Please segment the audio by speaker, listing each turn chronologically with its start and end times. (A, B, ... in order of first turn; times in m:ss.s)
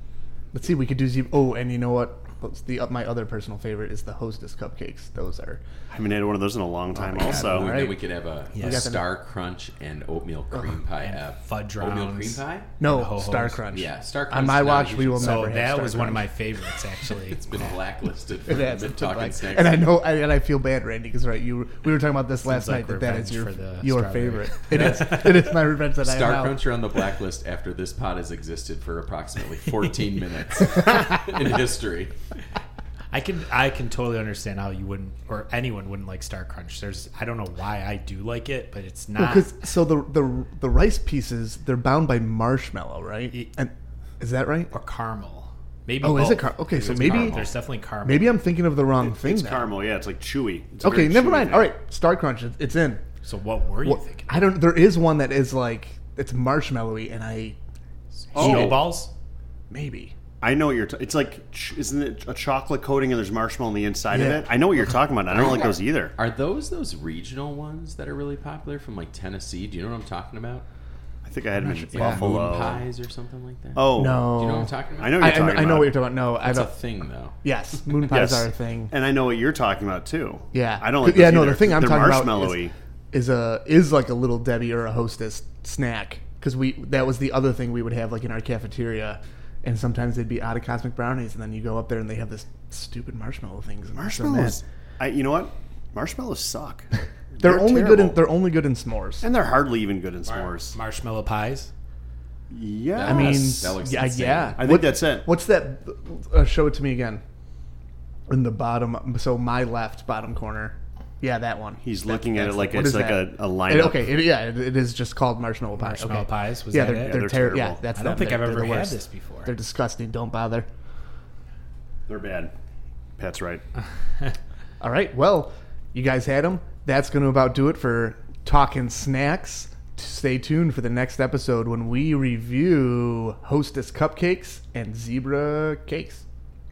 0:00.5-0:05.6 A
0:05.9-0:07.7 B
0:06.9-0:09.1 A
0:07.2-0:12.7 C
0:08.5-0:08.9 D
0:11.0-0:13.6 D
0:12.8-0:16.3 A
0:13.7-0:15.6 C
0:15.2-0:17.8 D
0:17.3-0:19.9 C
0:18.5-0:26.6 A
0:22.4-0:25.4 D
0:26.0-0:32.1 C
0:33.1-0:39.5 D
0:39.2-0:44.7 A
0:44.7-0:48.4 D
0:46.0-0:47.5 A
0:46.8-0:47.5 C
0:48.0-0:49.7 A
0:49.0-0:51.7 B
0:50.8-0:53.0 A
0:53.2-0:54.6 D
0:53.8-0:57.6 A
0:58.3-0:58.8 A
0:58.3-0:58.8 B
0:58.3-0:59.1 D
0:59.7-1:00.1 A
1:00.4-1:06.1 B
1:04.1-1:05.7 A
1:06.1-1:10.6 C
1:11.2-1:12.8 B
1:11.6-1:12.2 A
1:11.9-1:15.5 C
1:13.7-1:14.3 B
1:13.9-1:16.7 A
1:15.0-1:16.0 B
1:16.4-1:17.4 C
1:17.4-1:18.9 A
1:18.1-1:22.7 B
1:20.5-1:34.6 A
1:34.0-1:38.2 B
1:37.4-1:39.2 A
1:39.2-1:40.8 B
1:40.2-1:41.7 D
1:42.5-1:43.6 B
1:42.9-1:44.7 C
1:43.0-1:47.2 A
1:44.6-1:45.3 B
1:48.3-2:00.7 A
1:51.8-1:54.1 B
1:55.8-1:57.2 D
1:57.0-1:57.8 B
1:57.9-1:59.5 D
2:02.1-2:02.5 B
2:03.2-2:03.6 B
2:04.8-2:16.2 A